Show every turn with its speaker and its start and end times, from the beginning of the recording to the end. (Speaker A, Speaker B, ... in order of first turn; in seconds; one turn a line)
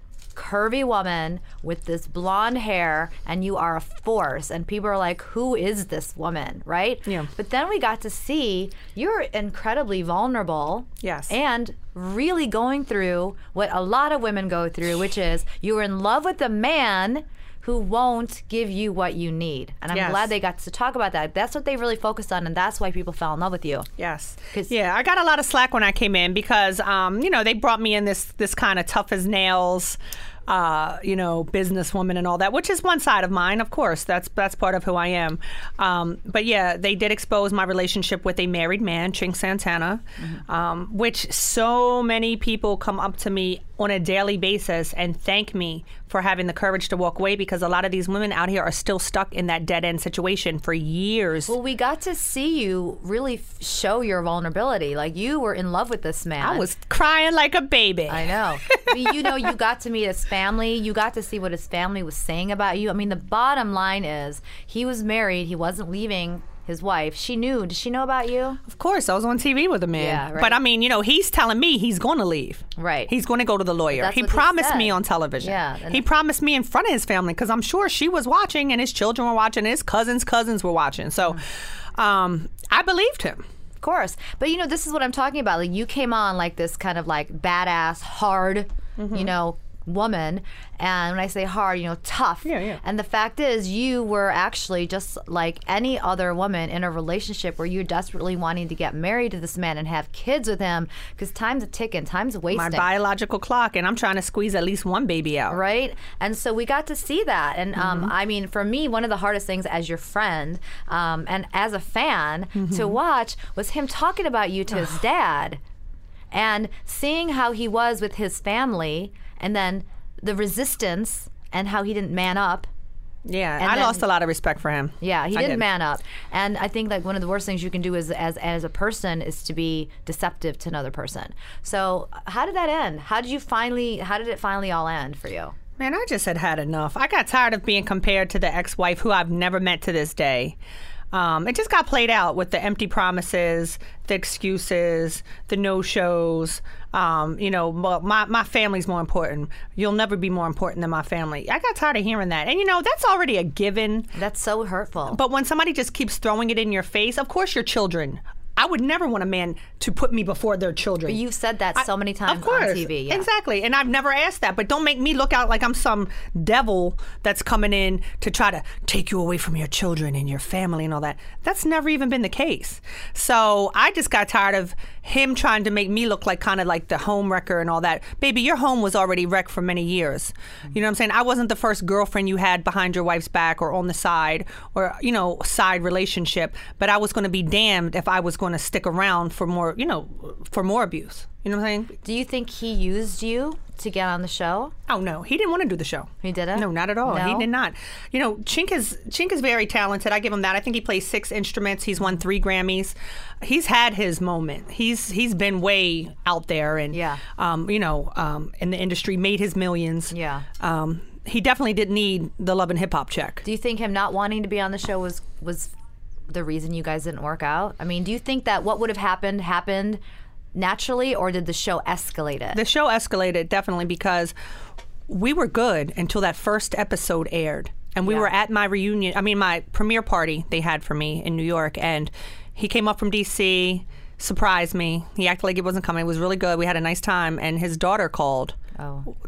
Speaker A: 0.3-23.9
Speaker B: 11.0-11.3
Speaker B: 19.9-20.3
Speaker B: 24.0-51.5
Speaker A: 51.5-56.7
Speaker B: 56.4-59.5
Speaker A: 58.1-68.6
Speaker B: 68.7-83.4
Speaker A: 70.0-70.6
Speaker A: 72.8-73.1
Speaker A: 73.9-76.1
Speaker A: 83.8-102.9
Speaker B: 89.0-89.3
Speaker B: 92.5-92.8
Speaker B: 102.5-105.6
Speaker A: 105.5-115.6
Speaker B: 107.8-108.1
Speaker B: 112.6-113.0
Speaker A: 116.3-122.7
Speaker B: 123.2-125.6
Speaker A: 123.6-124.1
Speaker A: 125.0-135.5
Speaker B: 135.8-140.6
Speaker B: 141.1-154.1
Speaker A: 154.2-155.2
Speaker B: 155.1-161.2
Speaker A: 161.1-163.3
Speaker B: 161.8-192.0
Speaker A: 192.0-194.7
Speaker B: 194.9-213.4
Speaker A: 196.2-197.5
Speaker A: 206.9-207.2
Speaker A: 210.1-210.5
Speaker A: 213.4-215.7
Speaker A: 216.3-220.0
Speaker A: 220.5-222.6
Speaker B: 222.5-224.3
Speaker B: 225.1-238.6
Speaker A: 228.1-228.3
Speaker A: 238.8-239.1